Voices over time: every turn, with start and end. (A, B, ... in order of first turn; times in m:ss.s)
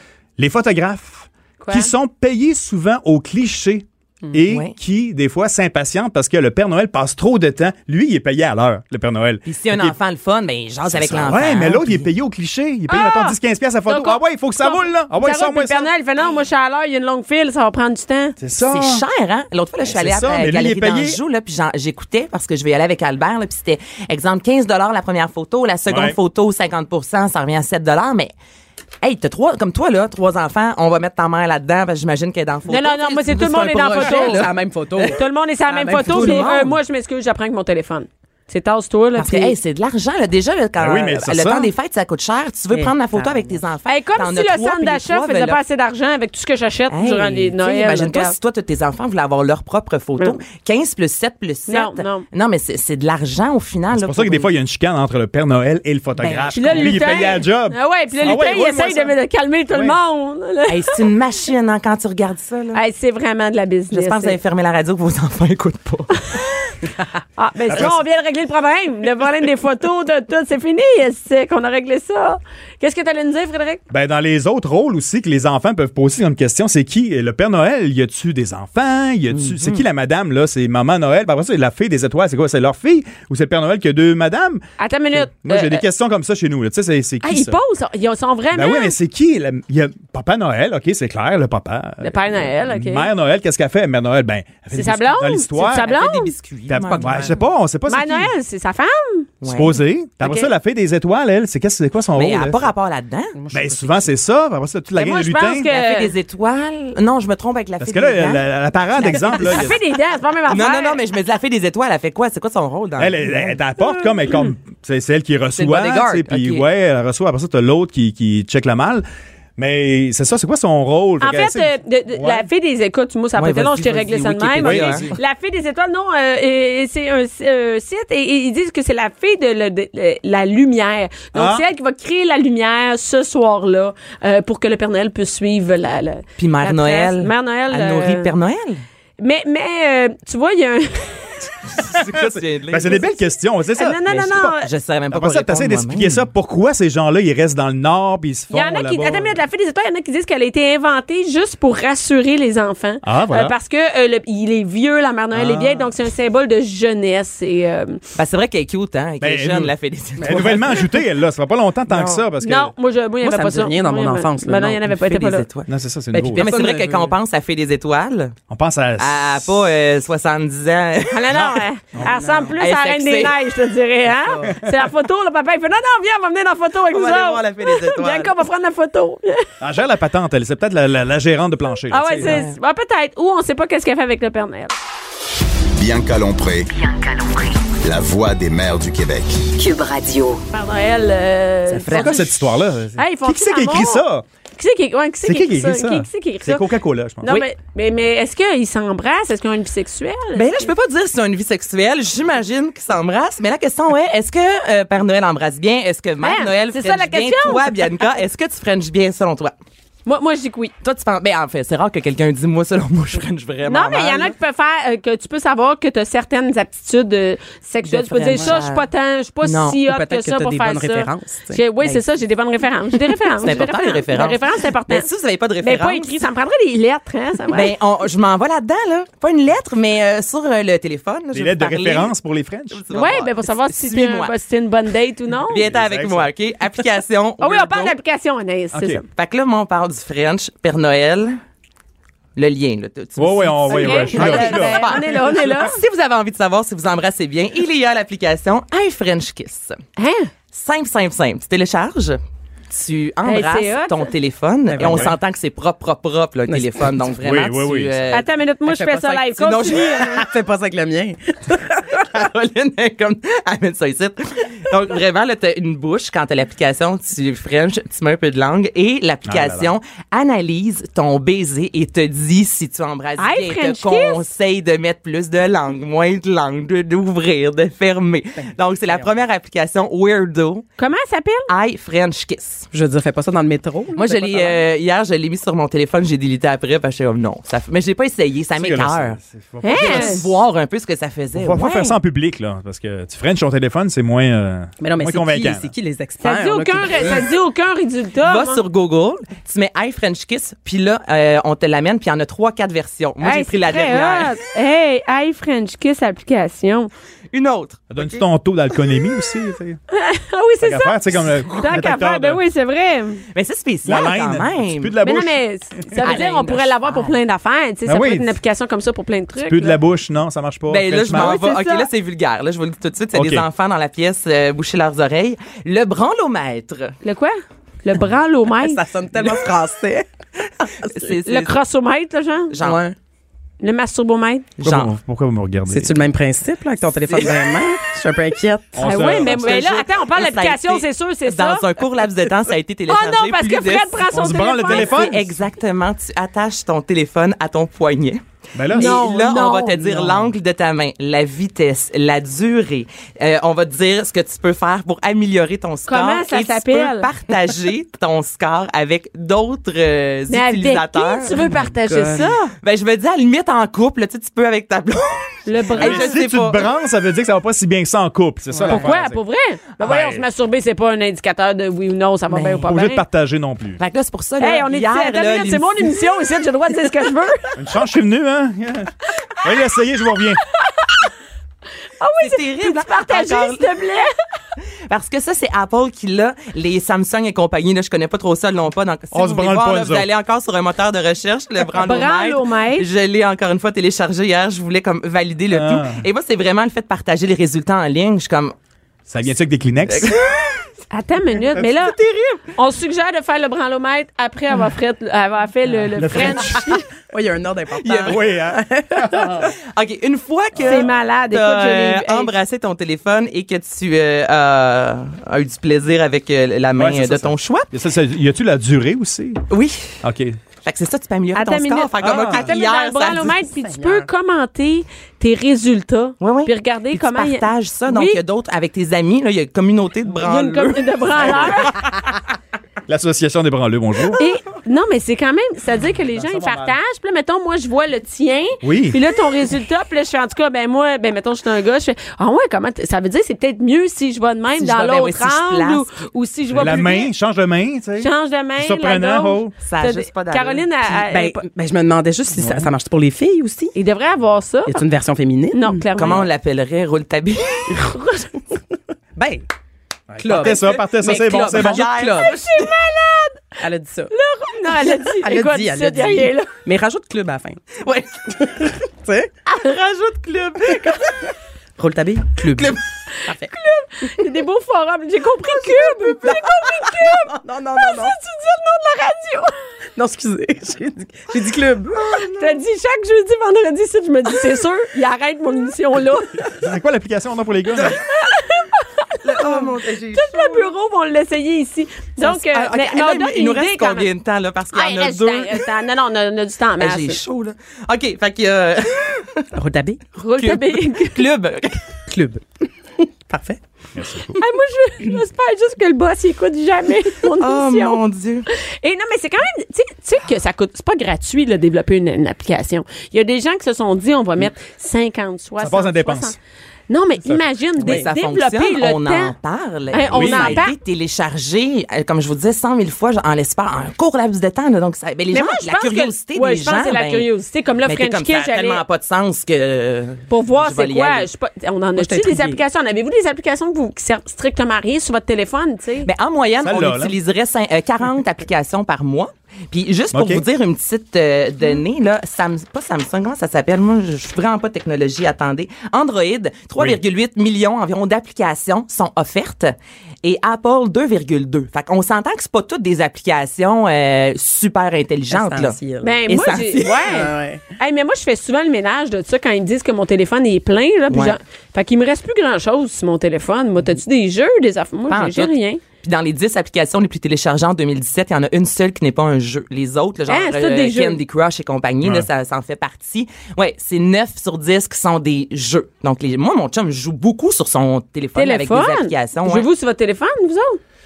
0:00.4-0:10.0 A
0:01.6-0:01.9 B
0:04.5-0:04.7 C
0:09.4-0:12.1 C
0:10.9-0:15.9 A
0:12.9-0:18.3 B
0:18.4-0:19.0 A
0:18.6-0:28.3 C
0:19.8-0:21.2 A
0:25.9-0:26.2 A
0:29.0-0:34.5 C
0:32.7-0:34.5 B
0:33.3-0:36.7 D
0:35.0-0:39.5 B
0:36.0-0:36.8 C
0:39.2-0:45.6 C
0:40.8-0:41.7 A
0:42.7-0:43.6 D
0:43.8-0:48.3 B
0:46.9-0:54.5 C
0:51.7-0:52.2 B
0:53.9-0:59.1 A
0:56.2-0:57.0 C
0:56.5-1:01.0 B
0:59.7-1:00.0 A
1:00.7-1:02.8 C
1:02.7-1:04.4 B
1:03.9-1:06.3 C
1:07.4-1:13.8 B
1:07.7-1:08.0 A
1:13.9-1:27.6 A
1:19.3-1:19.8 C
1:24.8-1:25.8 B
1:27.2-1:29.0 B
1:28.5-1:35.9 A
1:32.0-1:33.1 B
1:34.7-1:36.3 B
1:35.6-1:37.4 C
1:36.7-1:38.3 A
1:37.9-1:39.3 B
1:39.4-1:39.8 C
1:39.4-1:42.6 A
1:40.2-1:40.5 B
1:42.2-1:43.4 C
1:43.4-1:44.1 D
1:43.5-1:45.7 A
1:44.9-1:46.1 B
1:45.7-1:48.4 C
1:47.8-1:49.8 A
1:49.0-1:49.8 C
1:49.4-1:51.0 B
1:50.5-1:53.2 C
1:53.0-1:59.0 A
1:55.5-1:56.7 C
1:59.6-2:02.5 A
2:01.2-2:18.3 B
2:03.4-2:05.1 C
2:04.6-2:05.2 A
2:11.3-2:11.6 A
2:16.4-2:18.8 C
2:19.2-2:21.5 B
2:21.7-2:23.0 C
2:21.8-2:24.5 A
2:23.7-2:24.7 B
2:24.1-2:26.2 C
2:25.1-2:29.4 A
2:28.5-2:38.0 B
2:33.0-2:33.5 A
2:35.3-2:35.9 A
2:38.2-2:40.9 C
2:39.2-2:42.7 A
2:40.2-2:40.6 D
2:41.9-2:42.2 C
2:42.4-2:45.4 B
2:43.2-2:44.8 D
2:45.0-2:45.7 C
2:45.7-2:46.5 A
2:46.1-2:47.1 D
2:46.3-2:48.3 C
2:48.5-2:49.4 A
2:49.0-2:51.5 C
2:51.1-2:59.4 B
2:51.3-2:52.2 A
2:52.5-2:53.4 C
2:56.9-2:58.3 C
2:59.6-3:02.4 A
3:01.9-3:04.7 B
3:02.2-3:02.6 C
3:05.8-3:06.7 E
3:06.7-3:07.8 F
3:07.8-3:09.5 E
3:09.5-3:10.4 F
3:10.5-3:12.3 B
3:11.7-3:12.3 C
3:11.9-3:14.2 A
3:13.0-3:14.0 B
3:14.6-3:16.7 B
3:15.2-3:17.4 A
3:17.2-3:20.7 B
3:20.4-3:29.5 C
3:26.2-3:27.8 B
3:30.0-3:30.7 B
3:30.8-3:34.3 C
3:33.6-3:45.1 B
3:37.9-3:38.8 C
3:38.3-3:38.6 D
3:39.4-3:39.8 C
3:39.8-3:41.6 D
3:43.4-3:46.1 C
3:45.6-3:47.7 B
3:47.5-3:52.1 C
3:51.3-3:52.8 A
3:52.7-3:54.3 C
3:52.9-3:55.6 B
3:55.5-3:58.0 C
3:55.6-3:56.3 A
3:57.4-3:59.0 B
3:58.7-3:59.0 A
3:59.1-4:01.4 C
4:02.4-4:09.8 C
4:03.2-4:05.1 A
4:03.7-4:05.8 B
4:10.0-4:10.3 B
4:10.5-4:18.2 C
4:13.2-4:14.1 B
4:14.7-4:15.1 D
4:14.8-4:15.1 A
4:16.5-4:16.9 D
4:17.2-4:18.1 A
4:18.1-4:20.2 B
4:18.6-4:22.0 D
4:19.4-4:20.2 C
4:21.9-4:40.6 C
4:29.3-4:29.7 A
4:33.2-4:34.2 B
4:38.4-4:39.1 D
4:40.8-4:41.5 B
4:41.5-4:42.7 C
4:42.7-4:44.6 D
4:43.9-4:52.0 C
4:48.6-4:50.3 A
4:49.6-4:50.2 B
4:51.3-4:55.7 A
4:54.8-4:57.3 D
4:56.2-4:58.6 B
4:58.2-5:04.4 C
5:03.2-5:06.9 B
5:07.3-5:08.2 C
5:07.9-5:09.8 A
5:09.9-5:13.2 B
5:10.6-5:12.4 A
5:13.3-5:14.9 C
5:13.8-5:15.4 A
5:15.0-5:19.8 B
5:16.0-5:17.1 C
5:17.8-5:18.3 A
5:19.4-5:21.4 A
5:20.7-5:27.0 C
5:21.1-5:21.9 B
5:23.1-5:23.4 A
5:27.0-5:28.8 B
5:28.6-5:30.1 D
5:30.6-5:31.6 C
5:31.2-5:32.5 B
5:32.5-5:32.8 C
5:32.6-5:32.9 D
5:33.6-5:34.5 B
5:34.6-5:34.9 C
5:34.6-5:36.0 A
5:35.7-5:38.8 D
5:37.0-5:37.5 C
5:38.7-5:39.6 A
5:38.8-5:41.7 B
5:39.0-5:44.1 C
5:42.9-5:45.1 B
5:44.1-5:45.2 A
5:44.6-6:01.5 C
5:48.5-5:49.0 A
5:48.7-5:49.9 B
5:55.9-5:57.1 B
6:00.3-6:02.5 B
6:01.4-6:02.3 D
6:02.2-6:06.7 C
6:05.4-6:06.2 B
6:05.8-6:09.2 A
6:08.6-6:13.0 B
6:09.8-6:10.2 A
6:12.3-6:12.6 C
6:12.6-6:13.8 A
6:13.8-6:16.0 C
6:14.4-6:17.6 B
6:17.6-6:20.4 A
6:22.0-6:24.1 B
6:22.2-6:23.7 C
6:24.9-6:38.5 C
6:29.1-6:30.1 A
6:31.8-6:32.9 B
6:35.5-6:36.0 A
6:39.1-6:40.2 A
6:39.9-6:40.6 C
6:40.9-6:46.8 B
6:45.9-6:46.8 A
6:47.1-6:49.5 D
6:47.7-6:48.2 C
6:48.0-6:49.5 A
6:49.3-6:57.7 C
6:50.6-6:52.3 B
6:56.8-6:59.4 A
6:59.5-7:00.0 C
7:00.0-7:00.4 A
7:00.6-7:03.4 C
7:01.3-7:08.2 B
7:02.0-7:02.5 A
7:03.5-7:04.0 D
7:06.2-7:12.0 C
7:10.2-7:11.8 B
7:12.9-7:14.2 A
7:14.2-7:27.1 B
7:16.1-7:16.8 A
7:18.6-7:19.0 A
7:24.5-7:26.0 C
7:26.5-7:29.5 A
7:28.0-7:31.4 B
7:29.6-7:30.6 C
7:30.8-7:33.7 D
7:32.3-7:32.7 A
7:33.7-7:34.8 B
7:34.6-7:35.6 D
7:35.5-7:36.3 B
7:36.0-7:37.8 C
7:37.7-7:38.0 D
7:37.9-7:38.3 B
7:39.2-7:39.4 D
7:40.1-7:41.9 A
7:40.2-7:42.3 D
7:40.2-7:42.7 C
7:42.2-7:43.6 B
7:43.6-7:44.1 D
7:44.1-7:46.5 B
7:45.1-7:47.6 D
7:47.7-7:48.3 C
7:48.3-7:49.3 D
7:49.5-7:51.0 C
7:50.7-7:51.0 D
7:51.8-7:53.5 D
7:52.3-7:52.8 C
7:53.3-7:59.5 B
7:55.6-7:58.2 D
7:56.2-7:57.0 C
7:59.9-8:02.2 D
8:02.0-8:02.4 C
8:02.2-8:06.5 B
8:06.6-8:08.0 A
8:07.9-8:14.1 B
8:09.2-8:10.7 C
8:12.2-8:15.6 C
8:14.7-8:17.2 B
8:16.8-8:19.5 C
8:19.5-8:20.0 D
8:20.2-8:21.2 B
8:20.4-8:21.8 C
8:22.1-8:23.6 D
8:24.0-8:24.4 A
8:24.3-8:36.4 B
8:27.4-8:28.5 C
8:35.6-8:36.3 A
8:36.9-8:39.3 B
8:37.8-8:47.3 C
8:37.8-8:38.1 D
8:39.9-8:40.8 B
8:40.1-8:40.6 A
8:45.3-8:48.8 B
8:47.8-8:51.3 C
8:50.3-8:56.1 B
8:52.0-8:52.6 D
8:56.0-9:17.1 C
8:56.6-8:57.1 A
9:00.1-9:00.4 A
9:15.3-9:16.2 D
9:16.0-9:25.8 B
9:17.0-9:17.6 D
9:21.1-9:21.4 C
9:25.1-9:39.7 C
9:30.3-9:31.2 B
9:38.3-9:40.8 B